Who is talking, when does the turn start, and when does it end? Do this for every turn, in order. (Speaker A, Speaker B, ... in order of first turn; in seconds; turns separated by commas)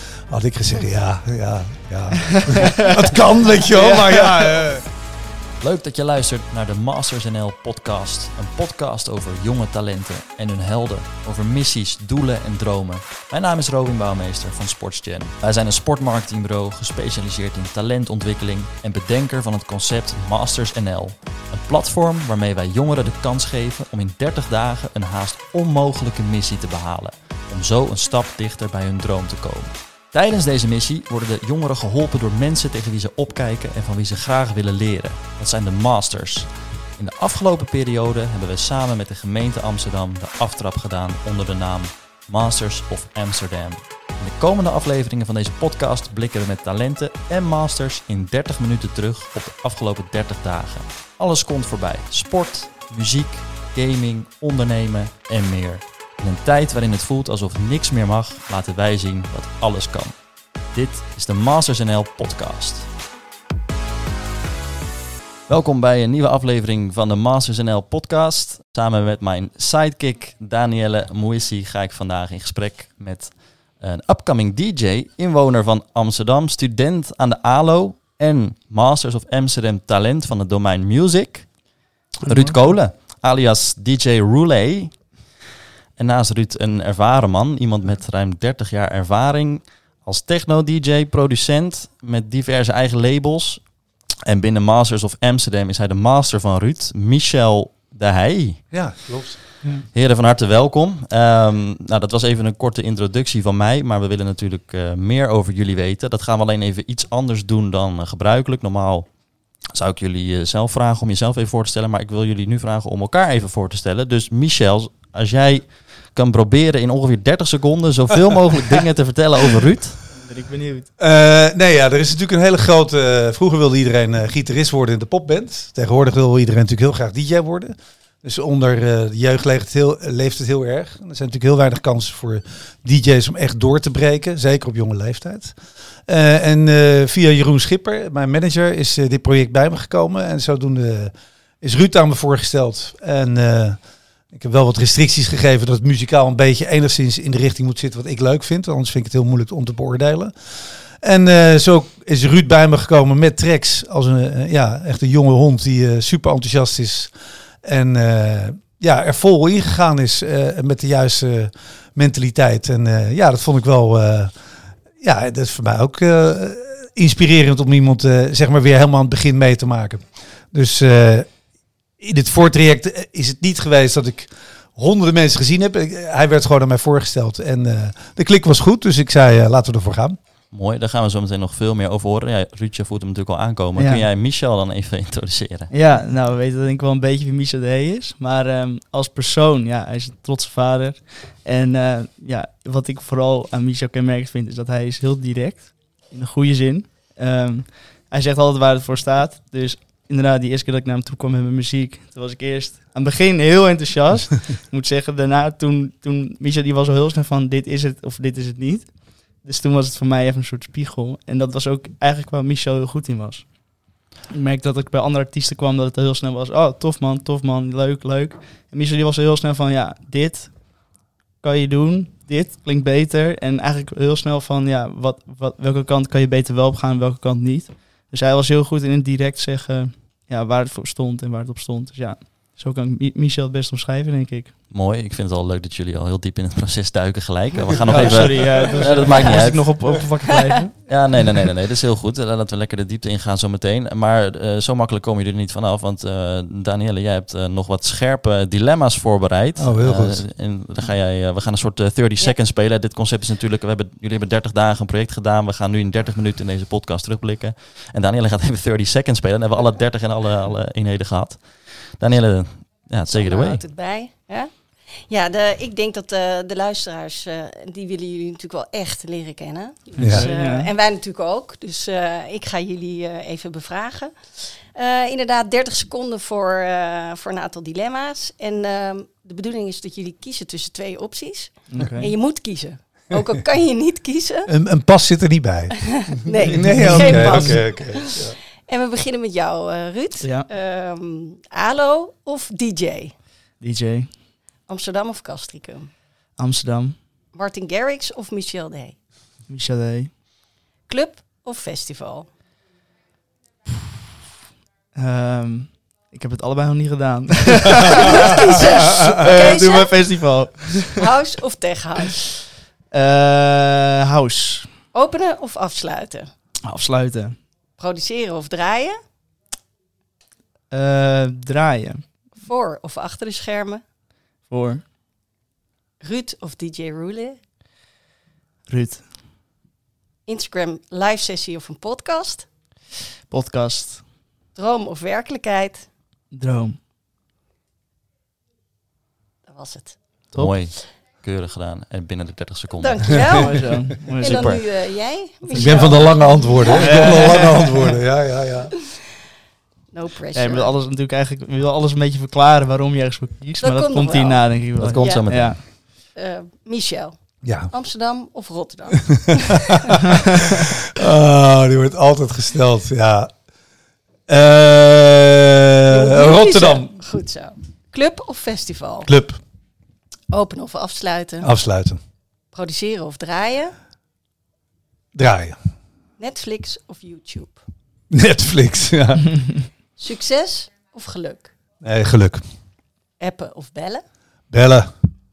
Speaker A: 0.3-4.8, Speaker B: 3.7-4.6, Speaker C: 5.6-62.9, Speaker C: 65.5-81.7, Speaker C: 82.2-85.3, Speaker B: 82.2-82.8, Speaker C: 86.0-98.7, Speaker A: 98.7-99.4, Speaker C: 99.9-120.0, Speaker B: 120.1-120.9, Speaker A: 121.0-143.8, Speaker A: 144.3-150.3, Speaker A: 151.0-157.1, Speaker A: 157.6-164.3, Speaker A: 165.0-171.3, Speaker A: 172.0-180.2, Speaker C: 180.5-185.7, Speaker B: 183.8-184.0, Speaker B: 185.7-234.5, Speaker C: 234.7-240.0, Speaker B: 237.9-241.0, Speaker A: 237.9-238.5, Speaker C: 240.9-263.6, Speaker A: 249.6-250.3, Speaker D: 263.1-284.5, Speaker B: 269.9-270.7, Speaker A: 270.0-270.3, Speaker B: 281.7-282.1, Speaker A: 284.5-288.4, Speaker D: 286.0-293.1, Speaker B: 286.5-287.6, Speaker B: 290.2-290.5, Speaker B: 293.6-294.2, Speaker D: 294.7-295.9, Speaker B: 296.4-297.0, Speaker D: 297.3-299.0, Speaker B: 299.5-300.1, Speaker D: 300.9-302.3, Speaker B: 304.9-311.0, Speaker D: 307.9-310.1, Speaker D: 310.9-312.4, Speaker B: 312.9-314.8, Speaker D: 314.9-316.3, Speaker B: 316.6-317.4, Speaker D: 317.8-319.0, Speaker B: 320.7-322.1, Speaker D: 322.4-323.8, Speaker B: 324.5-324.8, Speaker D: 326.0-327.4, Speaker B: 328.7-329.1, Speaker D: 330.3-332.5, Speaker B: 333.3-334.1, Speaker D: 334.5-335.9, Speaker B: 336.3-336.8, Speaker D: 339.5-340.3, Speaker C: 340.4-343.4, Speaker D: 342.8-347.6, Speaker B: 343.3-344.6, Speaker A: 344.1-344.6, Speaker B: 345.5-347.9, Speaker A: 345.5-348.7, Speaker D: 349.9-350.8, Speaker B: 350.3-355.6, Speaker D: 353.6-359.8, Speaker C: 354.8-355.6, Speaker A: 357.4-357.7, Speaker A: 361.0-363.5, Speaker A: 364.3-366.9, Speaker D: 365.9-369.1, Speaker A: 369.1-369.4, Speaker D: 370.3-371.5, Speaker A: 371.4-372.0, Speaker D: 372.5-373.8, Speaker A: 375.1-375.6, Speaker D: 376.2-377.6, Speaker A: 378.1-379.4, Speaker D: 380.0-381.5, Speaker A: 381.8-382.4, Speaker D: 383.2-384.0, Speaker A: 384.5-384.9